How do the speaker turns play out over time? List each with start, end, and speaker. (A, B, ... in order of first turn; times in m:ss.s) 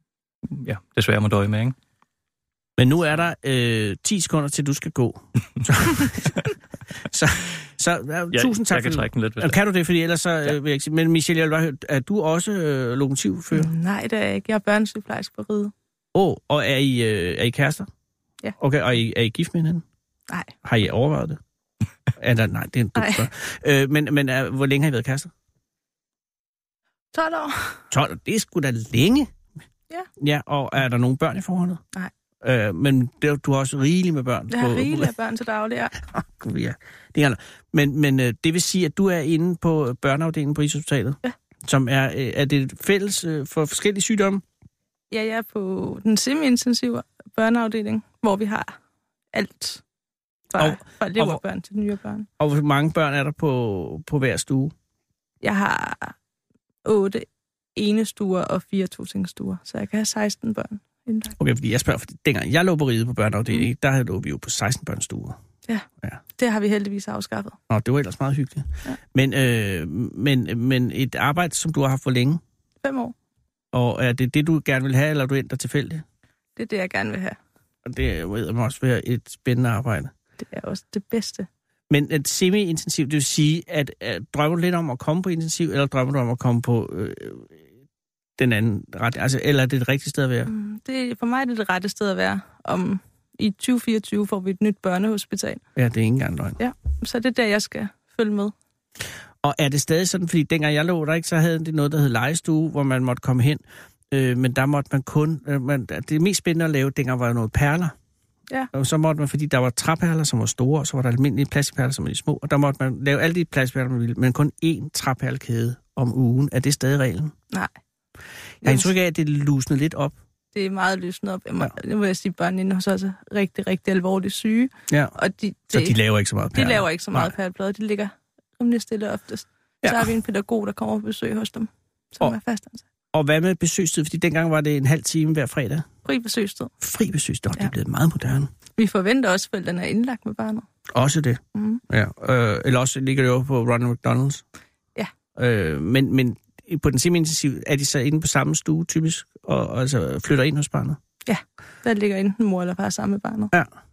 0:00.5-0:01.8 A
0:02.8-0:06.3 B
0:07.1-0:13.7 B
0:08.3-0:09.6 A
0:13.5-0:15.7 C
0:16.1-0:17.9 B
0:18.6-0:19.8 B
0:20.6-0:21.4 B
0:22.2-0:25.3 B
0:23.0-0:23.3 C
0:27.1-0:27.8 C
0:27.9-0:29.3 B
0:30.2-0:31.8 B
0:32.4-0:35.1 B
0:34.5-0:35.9 C
0:36.1-0:44.4 B
0:45.1-0:48.8 C
0:49.3-0:49.8 C
0:50.5-0:52.3 C
0:50.6-0:51.4 B
0:52.4-0:54.7 B
0:55.4-0:56.1 C
0:56.8-1:01.4 C
1:01.4-1:05.4 B
1:06.4-1:07.6 C
1:07.7-1:12.4 B
1:12.8-1:13.1 C
1:13.7-1:16.0 B
1:16.6-1:17.4 C
1:17.8-1:20.1 B
1:20.4-1:21.5 C
1:21.9-1:27.5 B
1:28.4-1:30.5 B
1:30.4-1:35.6 C
1:35.8-1:36.6 B
1:36.6-1:38.5 C
1:39.4-1:47.9 B
1:48.7-1:57.3 B
1:58.6-1:58.9 C
1:58.6-2:00.1 B
2:00.5-2:06.0 C
2:04.9-2:05.1 B
2:05.7-2:07.3 B
2:06.6-2:12.8 C
2:09.8-2:10.1 B
2:13.1-2:15.9 B
2:16.0-2:16.7 C
2:16.8-2:18.5 B
2:18.8-2:20.7 C
2:20.9-2:24.4 B
2:21.6-2:21.8 C
2:25.4-2:31.0 B
2:31.2-2:33.5 C